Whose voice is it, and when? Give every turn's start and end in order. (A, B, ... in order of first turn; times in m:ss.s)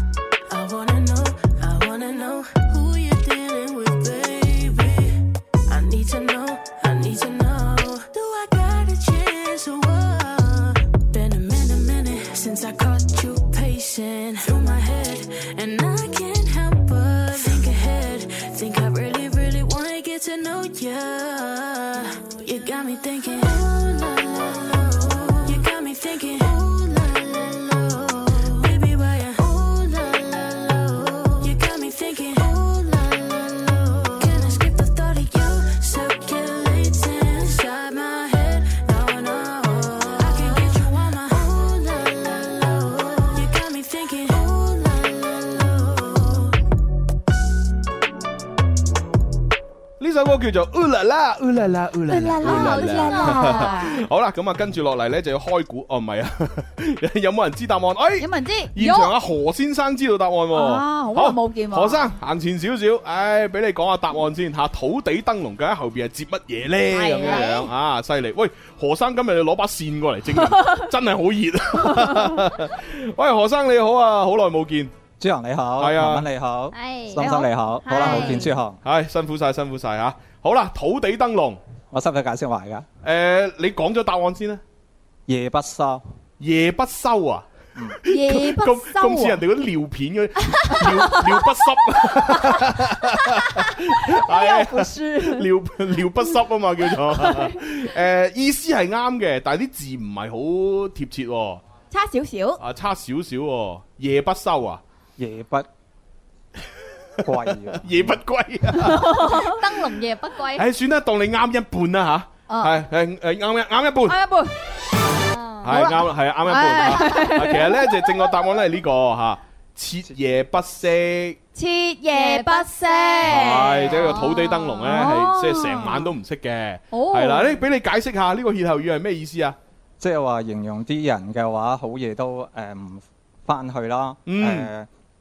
0:00.5-0:46.6 A
0:50.0-1:14.9 B
0:52.1-0:53.9 C
0:52.4-0:54.0 D
0:58.2-0:59.1 D
1:00.5-1:02.1 D
1:06.9-1:07.6 D
1:07.1-1:07.7 C
1:15.2-1:18.8 E
1:15.8-1:16.2 B
1:16.7-1:18.5 C
1:18.8-1:21.6 B
1:21.9-1:22.8 E
1:23.0-1:24.6 B
1:25.3-1:26.0 E
1:26.4-1:27.5 B
1:28.0-1:41.6 B
1:28.1-1:29.4 D
1:30.7-1:31.2 D
1:33.7-1:35.5 D
1:41.9-1:42.6 D
1:42.6-1:44.8 B
1:45.2-1:45.7 E
1:47.2-1:48.2 E
1:47.7-1:49.4 B
1:48.8-1:49.4 D
1:49.1-1:50.7 C
1:50.5-1:54.2 B
1:52.5-1:52.7 D
1:54.1-1:54.5 D
1:55.3-1:55.8 C
1:55.6-2:01.4 B
1:55.7-1:58.0 D
2:01.6-2:04.3 D
2:02.1-2:06.0 C
2:03.2-2:09.6 B
2:04.9-2:06.0 D
2:06.9-2:07.5 D
2:10.0-2:14.9 E
2:14.3-2:14.7 B